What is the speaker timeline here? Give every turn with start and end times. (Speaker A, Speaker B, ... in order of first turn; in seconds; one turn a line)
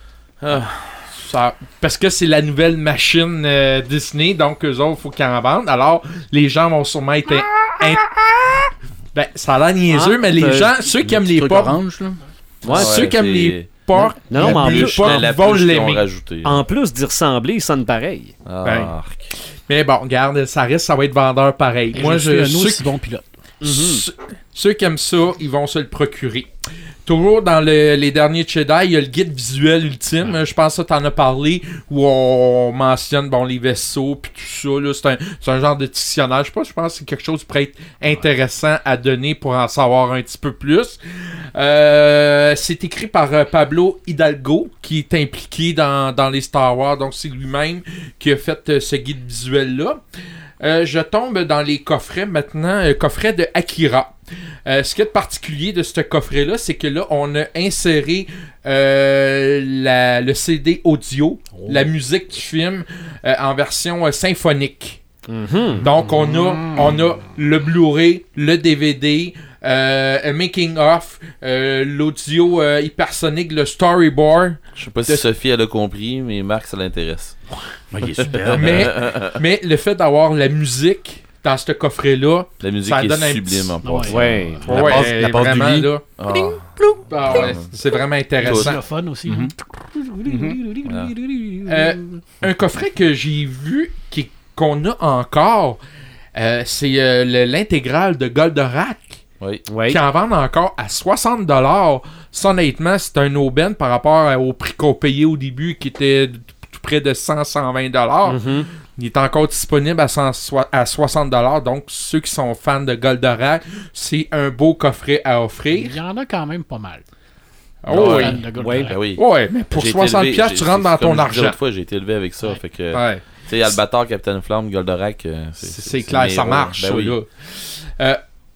Speaker A: 0.4-1.1
Speaker B: 1.1-11.8
Speaker C: 9.9-10.7
Speaker D: 11.0-12.2
Speaker C: 12.6-13.0
Speaker B: 12.7-16.0
Speaker A: 12.7-16.6
Speaker C: 14.3-15.2
Speaker C: 16.4-18.3
Speaker A: 18.4-19.3
Speaker B: 18.6-18.9
Speaker B: 19.7-22.9
Speaker E: 21.9-23.2
Speaker C: 23.6-24.1
Speaker B: 23.6-26.5
Speaker B: 27.1-41.0
Speaker B: 41.5-50.0
Speaker B: 50.6-65.0
Speaker E: 61.5-61.9
Speaker C: 65.3-65.8
Speaker B: 65.8-75.3
Speaker E: 66.6-67.0
Speaker A: 74.8-77.4
Speaker D: 77.9-78.9
Speaker A: 78.2-79.4
Speaker B: 78.5-83.8
Speaker A: 82.6-85.1
Speaker E: 83.8-84.7
Speaker C: 84.1-84.6
Speaker B: 84.6-88.8
Speaker D: 84.7-85.9
Speaker A: 86.2-87.7
Speaker E: 88.4-92.3
Speaker A: 88.4-88.8
Speaker D: 89.3-89.5
Speaker D: 90.2-90.6
Speaker A: 90.8-91.1
Speaker B: 91.7-95.8
Speaker B: 96.3-99.2
Speaker A: 99.4-99.7
Speaker C: 99.7-100.0
Speaker B: 99.8-116.0
Speaker C: 108.3-108.7
Speaker E: 115.7-117.0
Speaker B: 117.8-118.4
Speaker A: 117.9-127.2
Speaker E: 117.9-119.0
Speaker C: 118.6-118.9
Speaker B: 119.1-121.6
Speaker B: 122.9-123.7
Speaker B: 125.6-128.2